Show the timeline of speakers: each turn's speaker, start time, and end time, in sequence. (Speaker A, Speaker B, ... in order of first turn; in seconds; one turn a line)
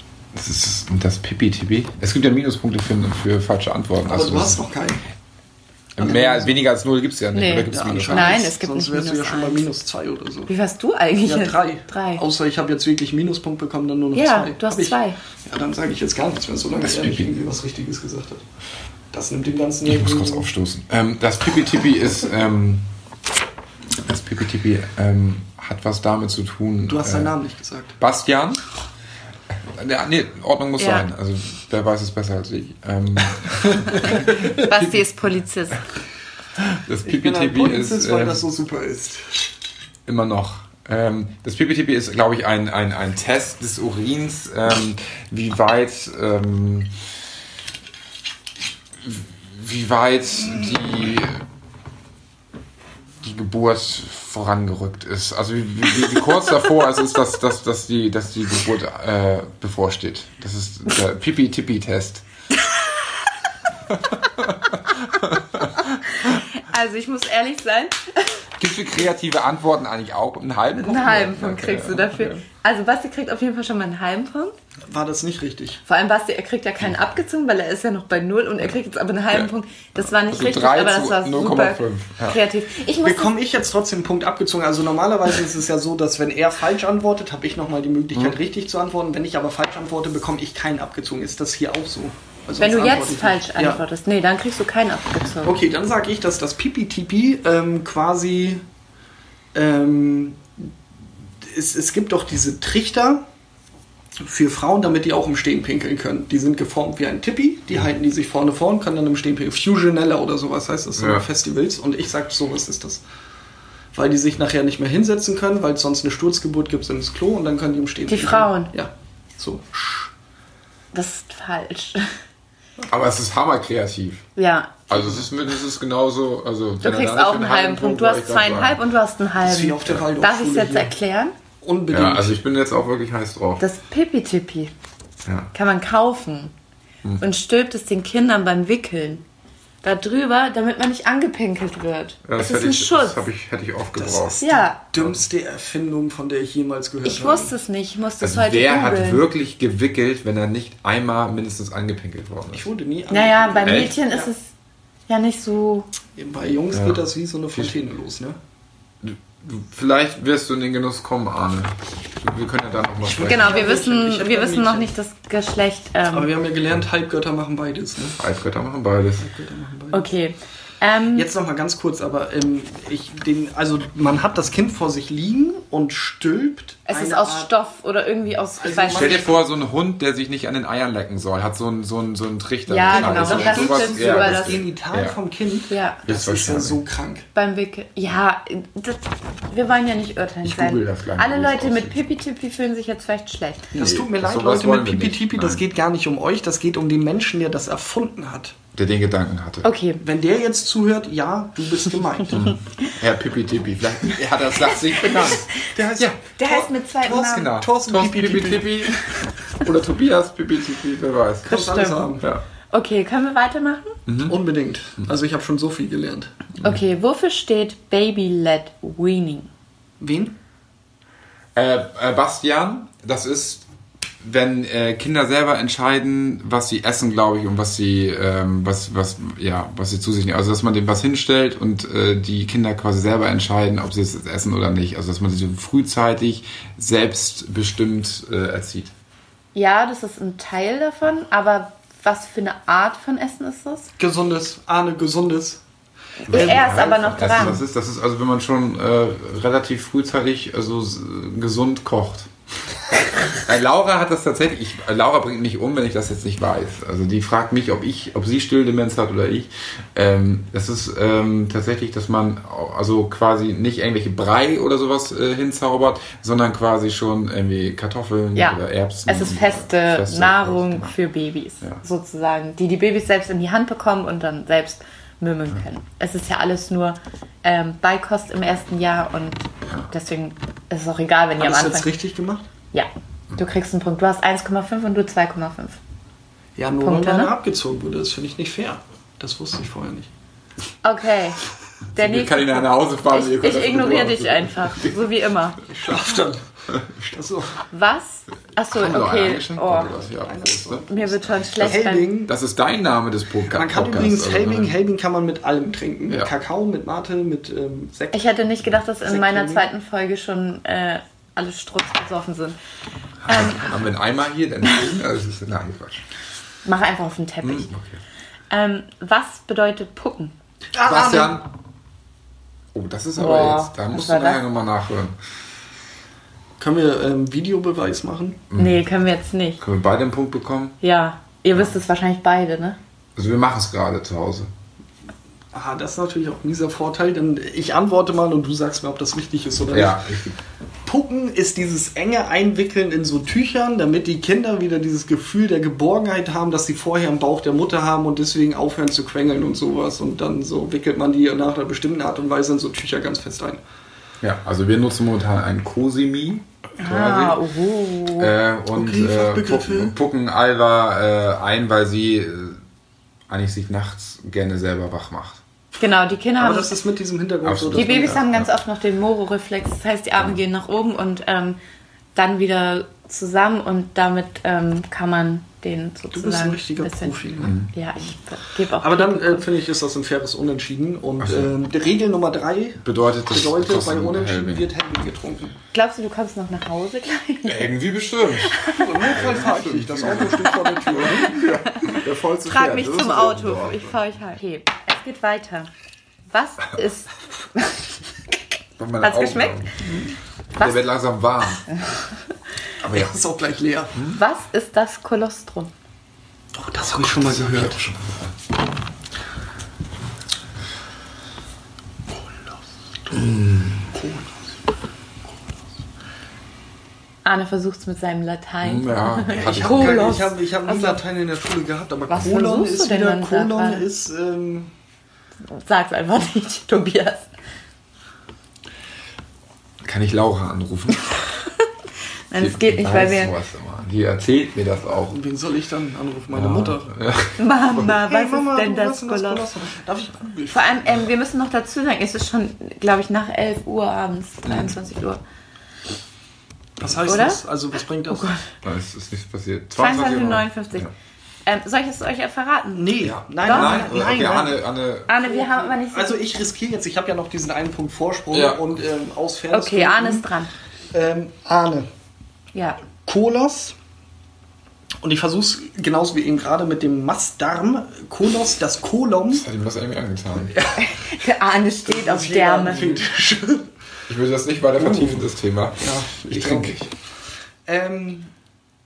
Speaker A: 0.3-4.6
Speaker B: 4.0-5.0
Speaker A: 6.0-8.3
Speaker B: 6.0-6.5
Speaker C: 7.3-9.7
Speaker B: 7.7-10.5
Speaker C: 10.5-12.2
Speaker B: 11.2-18.4
Speaker C: 14.1-15.2
Speaker A: 16.8-17.3
Speaker B: 19.1-20.5
Speaker A: 19.8-22.9
Speaker A: 24.0-27.3
Speaker B: 26.9-28.0
Speaker A: 28.0-28.6
Speaker A: 29.5-35.0
Speaker C: 30.8-31.1
Speaker C: 34.3-35.8
Speaker A: 36.6-38.4
Speaker B: 37.0-39.4
Speaker A: 40.0-46.9
Speaker A: 49.0-51.4
Speaker A: 53.2-62.2
Speaker A: 63.9-65.8
Speaker C: 66.1-68.4
Speaker A: 68.6-72.4
Speaker C: 70.8-74.5
Speaker B: 74.9-75.8
Speaker C: 75.8-83.3
Speaker A: 80.0-82.4
Speaker B: 83.0-93.8
Speaker C: 92.6-95.6
Speaker B: 95.4-98.6
Speaker B: 99.5-100.7
Speaker B: 101.4-103.2
Speaker B: 104.2-113.0
Speaker A: 111.0-111.2
Speaker B: 113.9-120.1
Speaker C: 118.1-118.7
Speaker C: 120.9-122.1
Speaker A: 122.9-124.2
Speaker C: 124.3-124.9
Speaker A: 124.9-128.8
Speaker C: 126.8-131.3
Speaker B: 129.4-130.9
Speaker B: 131.6-132.4
Speaker A: 131.9-133.6
Speaker C: 133.6-134.7
Speaker C: 135.5-136.5
Speaker C: 137.2-139.2
Speaker C: 139.8-143.2
Speaker A: 142.2-144.4
Speaker B: 143.9-147.5
Speaker C: 144.4-144.8
Speaker C: 147.0-149.2
Speaker A: 148.2-152.7
Speaker B: 152.5-154.3
Speaker C: 153.1-154.5
Speaker A: 153.6-153.9
Speaker C: 155.1-155.9
Speaker B: 156.2-158.4
Speaker A: 156.7-157.0
Speaker A: 159.0-163.6
Speaker B: 163.0-164.9
Speaker C: 163.2-166.3
Speaker B: 166.1-168.2
Speaker A: 168.2-169.3
Speaker B: 169.2-170.1
Speaker C: 169.9-171.3
Speaker B: 171.1-177.5
Speaker C: 176.9-179.2
Speaker B: 178.6-179.3
Speaker A: 178.9-185.2
Speaker C: 182.7-184.6
Speaker B: 182.9-187.2
Speaker C: 185.7-186.0
Speaker A: 186.1-186.8
Speaker C: 187.3-193.7
Speaker A: 190.4-192.1
Speaker B: 193.7-198.6
Speaker A: 193.7-195.6
Speaker A: 198.7-199.7
Speaker C: 199.6-200.0
Speaker B: 200.0-202.5
Speaker A: 202.3-206.2
Speaker C: 204.9-205.7
Speaker B: 205.7-208.9
Speaker C: 206.4-207.5
Speaker A: 207.2-209.0
Speaker A: 209.6-211.5
Speaker C: 211.4-212.1
Speaker B: 211.4-212.3
Speaker C: 212.7-214.0
Speaker A: 214.1-214.4
Speaker B: 214.3-216.3
Speaker C: 216.6-219.5
Speaker B: 220.0-220.3
Speaker A: 221.6-223.6
Speaker A: 224.2-238.9
Speaker C: 239.5-243.9
Speaker B: 244.0-245.6
Speaker C: 246.2-247.6
Speaker A: 246.3-252.3
Speaker B: 246.3-247.6
Speaker A: 253.3-270.9
Speaker C: 268.3-281.9
Speaker B: 281.4-282.4
Speaker C: 282.7-285.8
Speaker B: 286.6-290.1
Speaker C: 286.8-287.3
Speaker C: 290.8-291.4
Speaker C: 291.9-295.6
Speaker A: 291.9-295.0
Speaker B: 295.7-297.6
Speaker C: 297.7-300.0
Speaker A: 298.7-300.9
Speaker B: 300.0-302.3
Speaker C: 300.9-302.1
Speaker A: 301.4-304.7
Speaker B: 303.5-308.3
Speaker C: 308.1-312.6
Speaker B: 309.0-309.7
Speaker A: 313.3-316.0
Speaker C: 313.3-313.6
Speaker C: 316.6-317.7
Speaker A: 317.4-318.0
Speaker C: 318.5-320.3
Speaker B: 320.7-321.4
Speaker A: 320.8-321.5
Speaker A: 322.7-325.1
Speaker C: 323.1-324.4
Speaker B: 326.6-328.4
Speaker A: 328.5-328.8
Speaker C: 328.5-329.6
Speaker A: 329.6-330.8
Speaker C: 330.8-332.8
Speaker A: 333.1-334.5
Speaker B: 335.5-340.0
Speaker A: 339.7-340.4
Speaker B: 340.9-353.6
Speaker A: 354.2-357.4
Speaker C: 356.8-358.3
Speaker A: 358.2-362.6
Speaker B: 358.7-359.9
Speaker A: 363.3-365.4
Speaker C: 365.8-366.7
Speaker B: 366.4-368.2
Speaker A: 367.4-368.5
Speaker C: 367.7-371.6
Speaker C: 372.1-379.5
Speaker B: 376.1-377.6
Speaker A: 377.4-377.7
Speaker B: 378.8-385.6
Speaker A: 381.2-381.5
Speaker A: 382.8-384.7
Speaker C: 385.7-387.7
Speaker A: 387.4-388.6
Speaker C: 388.3-389.1
Speaker B: 388.7-391.4
Speaker A: 389.1-393.9
Speaker C: 390.4-395.7
Speaker C: 396.3-397.9
Speaker A: 398.8-399.7
Speaker C: 399.0-399.7
Speaker B: 399.8-400.1
Speaker C: 400.6-400.8
Speaker A: 400.6-401.7
Speaker B: 402.8-403.9
Speaker A: 402.9-403.1
Speaker C: 404.1-405.7
Speaker B: 406.5-407.8
Speaker A: 407.0-408.3
Speaker A: 413.1-413.9
Speaker B: 413.9-414.4
Speaker C: 417.2-421.0
Speaker A: 418.6-420.1
Speaker B: 419.3-424.7
Speaker C: 422.1-423.9
Speaker C: 425.5-427.3
Speaker A: 429.8-431.2
Speaker C: 432.3-433.3
Speaker A: 432.4-435.2
Speaker B: 435.1-436.9
Speaker A: 436.3-437.8
Speaker C: 437.4-439.5
Speaker B: 437.9-440.8
Speaker C: 440.5-445.2
Speaker A: 444.5-444.7
Speaker B: 446.8-448.3
Speaker C: 447.0-447.4
Speaker C: 448.1-448.4
Speaker A: 448.6-450.9
Speaker C: 449.8-450.9
Speaker C: 451.4-453.8
Speaker B: 452.7-454.6
Speaker A: 453.0-455.1
Speaker C: 455.1-456.2
Speaker B: 455.2-460.2
Speaker A: 458.3-458.8
Speaker C: 459.5-460.5
Speaker B: 460.9-461.9
Speaker C: 462.5-462.8
Speaker B: 463.1-463.7
Speaker B: 465.0-469.4
Speaker A: 469.3-470.5
Speaker B: 470.5-470.8
Speaker C: 470.8-472.8
Speaker B: 471.9-473.7
Speaker A: 474.1-476.8
Speaker B: 474.8-475.3
Speaker B: 475.8-476.9
Speaker B: 477.6-478.3